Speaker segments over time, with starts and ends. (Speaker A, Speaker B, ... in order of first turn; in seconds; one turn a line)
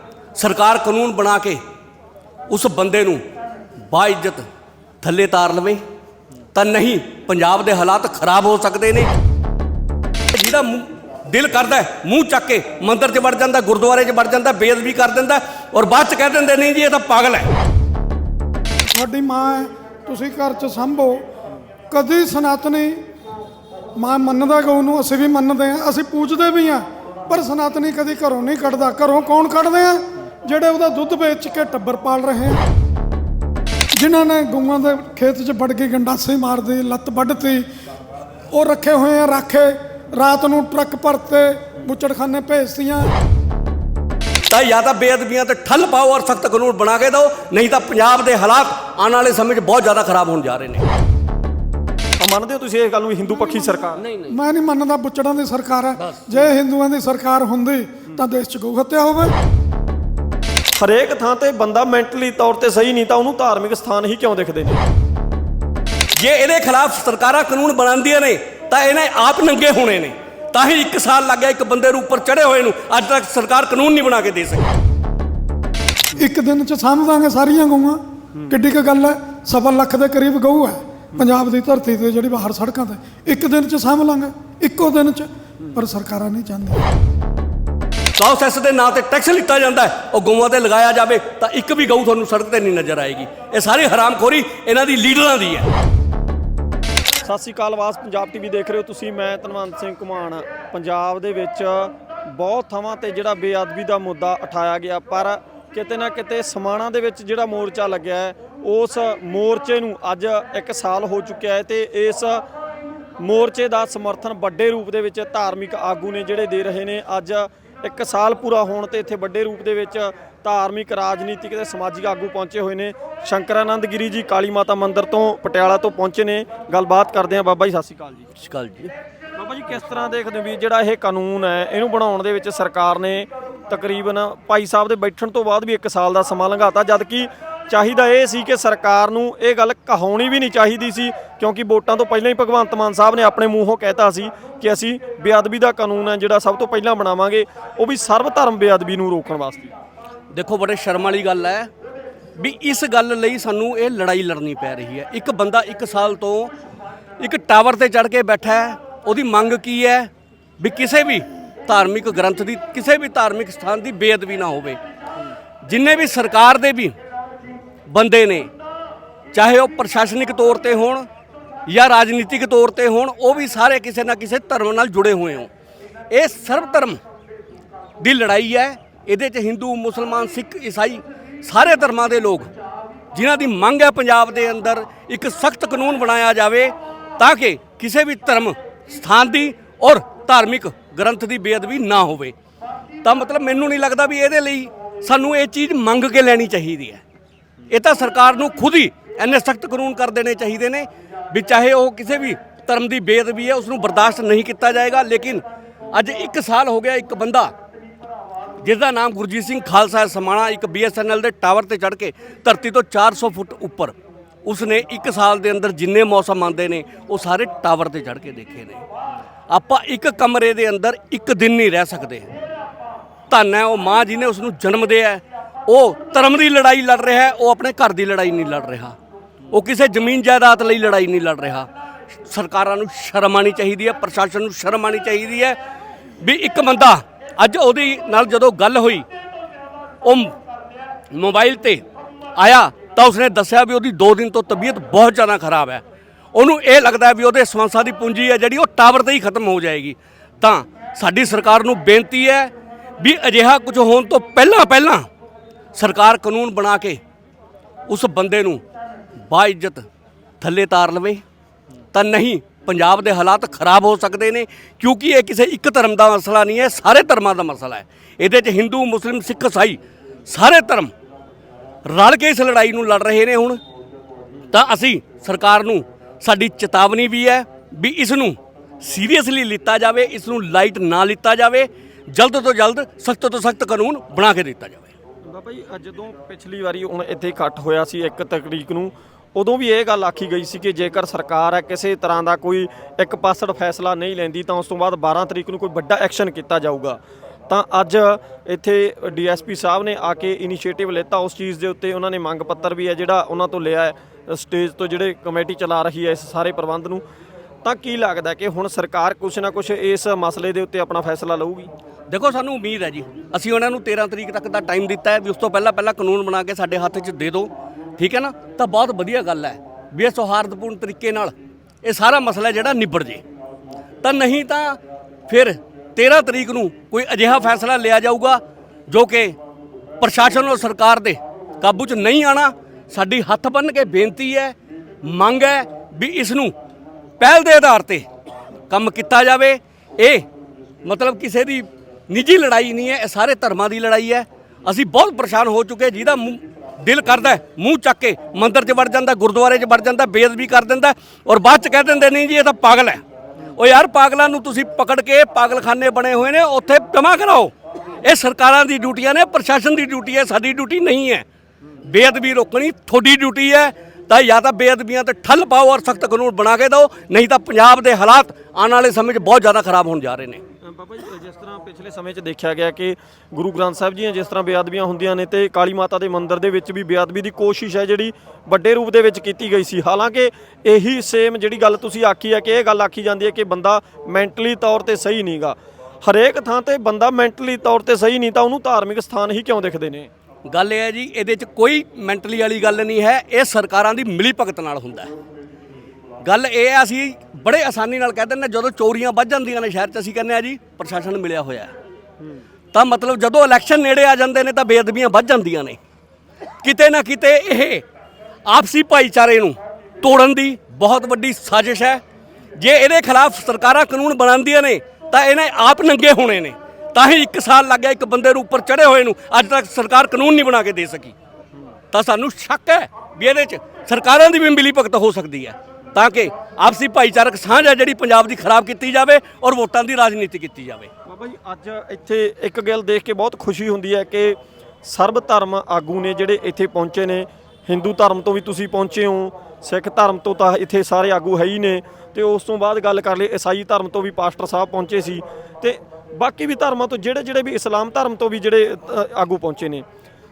Speaker A: 0.3-1.6
Speaker A: 2.5-3.2
Speaker A: 3.9-4.4
Speaker A: 5.0-5.8
Speaker A: 6.5-9.1
Speaker A: 10.3-17.5
Speaker B: 18.8-21.3
Speaker B: 21.9-23.1
Speaker B: 24.0-32.6
Speaker B: 33.9-37.7
Speaker B: 38.5-43.1
Speaker A: 44.5-50.9
Speaker C: 52.2-54.0
Speaker B: 53.4-59.3
Speaker C: 60.7-64.8
Speaker A: 66.2-74.7
Speaker B: 76.1-86.9
Speaker A: 88.2-95.7
Speaker C: 97.2-112.4
Speaker C: 113.2-128.3
Speaker A: 128.3-128.9
Speaker C: 129.4-149.7
Speaker A: 150.3-151.7
Speaker A: 152.4-156.5
Speaker A: 157.2-164.8
Speaker A: 165.6-166.9
Speaker A: 167.9-168.5
Speaker A: 169.3-171.1
Speaker A: 171.7-175.5
Speaker A: 176.1-177.0
Speaker A: 178.0-182.5
Speaker A: 183.1-192.3
Speaker A: 193.0-197.0
Speaker A: 197.7-207.5
Speaker A: 208.6-218.8
Speaker A: 219.5-222.3
Speaker A: 223.3-228.9
Speaker A: 229.5-231.7
Speaker A: 232.2-235.6
Speaker A: 236.2-239.1
Speaker A: 240.0-240.3
Speaker A: 241.1-241.8
Speaker A: 242.3-245.8
Speaker A: 246.3-255.1
Speaker A: 255.7-257.0
Speaker A: 257.9-258.6
Speaker A: 259.2-259.8
Speaker A: 260.4-261.2
Speaker A: 261.9-270.9
Speaker A: 271.8-273.6
Speaker A: 274.5-284.9
Speaker C: 285.2-307.0
Speaker C: 307.6-311.7
Speaker A: 312.1-323.2
Speaker A: 324.0-329.4
Speaker A: 330.0-336.5
Speaker A: 337.2-338.1
Speaker A: 338.7-340.2
Speaker A: 340.8-353.0
Speaker A: 353.5-361.2
Speaker A: 361.9-370.4
Speaker C: 370.6-390.1
Speaker A: 390.5-395.1
Speaker A: 396.2-401.7
Speaker A: 402.7-405.8
Speaker A: 406.6-407.8
Speaker A: 408.5-412.0
Speaker A: 412.6-421.1
Speaker A: 421.9-430.9
Speaker C: 431.0-449.8